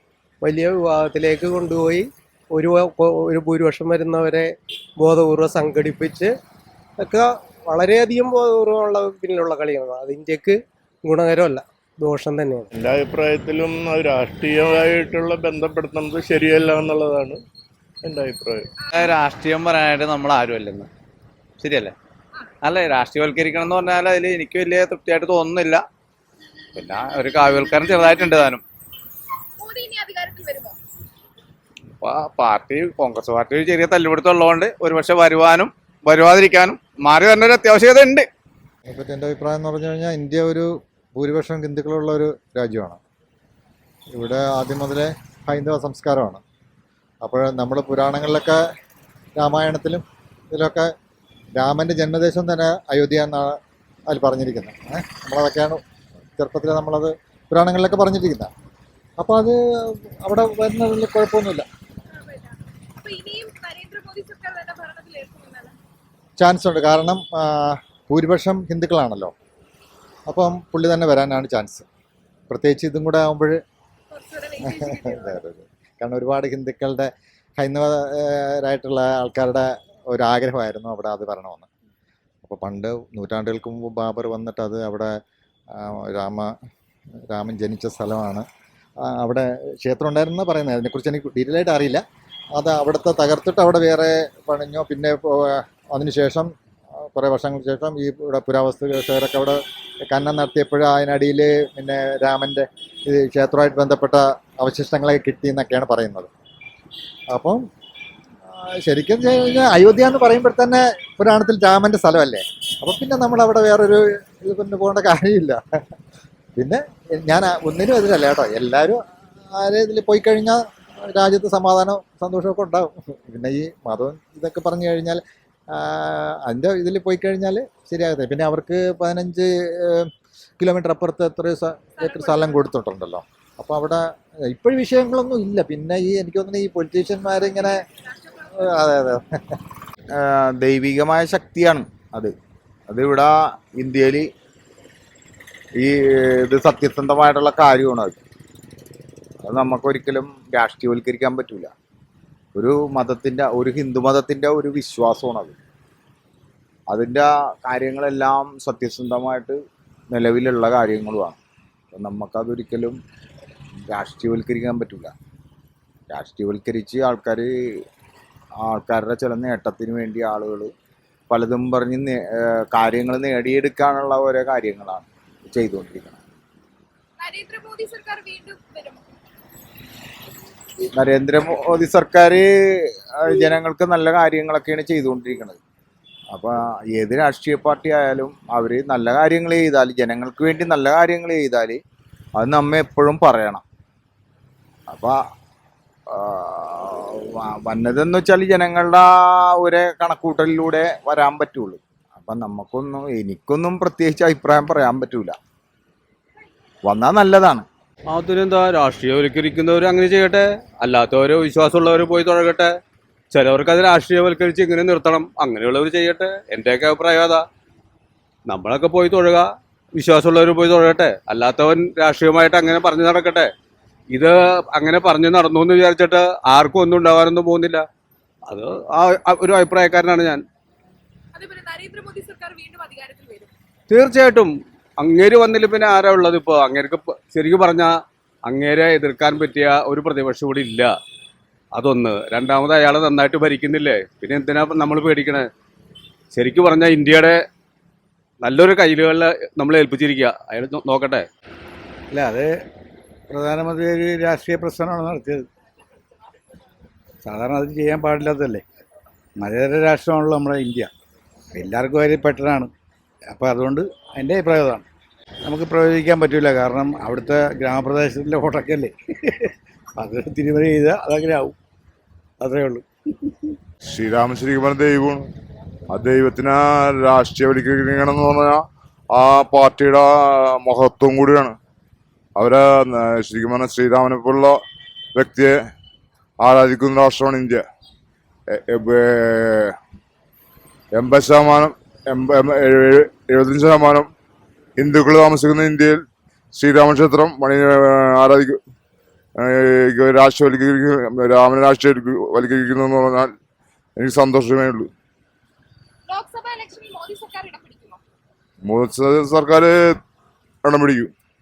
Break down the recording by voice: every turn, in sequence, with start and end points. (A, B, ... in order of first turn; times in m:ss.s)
0:00.4-0:06.3 A
0:07.0-0:12.7 A
0:12.7-0:17.4 B
0:18.0-0:18.7 B
0:18.9-0:20.9 C
0:21.6-0:21.9 C
0:22.6-0:25.8 C
0:26.8-0:28.6 C
0:29.6-0:30.8 D
0:32.0-0:38.3 C
0:38.9-0:43.0 E
0:44.1-0:46.4 E
0:47.2-0:48.6 E
0:49.4-0:50.9 E
0:51.6-0:53.6 E
0:54.1-0:55.8 E
0:56.4-0:58.5 E
0:59.2-1:01.7 E
1:02.2-1:02.5 D
1:03.0-1:05.7 D
1:06.4-1:09.3 E
1:10.3-1:11.8 E
1:12.5-1:13.6 E
1:14.2-1:15.3 D
1:14.6-1:21.7 E
1:22.4-1:25.2 E
1:25.7-1:26.5 E
1:27.3-1:28.5 E
1:29.0-1:32.0 E
1:32.6-1:36.5 E
1:37.0-1:46.3 E
1:47.3-1:47.6 E
1:48.7-1:55.6 E
1:56.6-1:59.0 E
1:59.5-2:17.8 E
2:18.5-2:19.5 E
2:20.2-2:22.3 F
2:22.9-2:24.3 F
2:25.8-2:28.2 F
2:29.4-2:31.7 F
2:32.5-2:35.6 F
2:36.9-2:39.6 F
2:40.1-2:41.4 F
2:41.9-2:43.0 F
2:43.9-2:45.1 F
2:46.1-2:47.5 F
2:48.6-2:50.7 F
2:51.3-2:56.2 F
2:57.2-2:59.0 D
3:01.0-3:02.5 F
3:03.2-3:05.6 F
3:06.3-3:11.8 F
3:12.4-3:13.6 F
3:14.9-3:15.2 F
3:16.1-3:25.4 F
3:26.8-3:27.7 F
3:28.1-3:32.7 G
3:33.3-3:37.4 G
3:38.5-3:43.5 G
3:44.1-3:47.8 G
3:48.5-3:50.4 G
3:51.4-3:53.5 D
3:53.9-3:57.9 G
3:58.5-4:00.9 G
4:01.7-4:05.5 G
4:06.3-4:07.4 G
4:08.4-4:11.2 G
4:12.1-4:12.5 H
4:13.3-4:15.4 H
4:17.2-4:18.6 H
4:19.4-4:20.9 H
4:21.5-4:22.7 H
4:23.3-4:24.8 H
4:25.5-4:31.5 H
4:32.4-4:32.8 H
4:33.9-4:35.2 I
4:35.9-4:40.1 I
4:40.6-4:41.6 I
4:42.4-4:44.6 I
4:45.1-4:45.5 I
4:46.4-4:47.6 I
4:48.6-4:49.8 I
4:50.9-4:54.1 I
4:54.8-4:56.0 I
4:56.5-4:58.6 I
4:59.4-5:03.3 I
5:04.0-5:04.9 I
5:06.1-5:08.0 D
5:08.6-5:09.7 I
5:10.6-5:11.1 I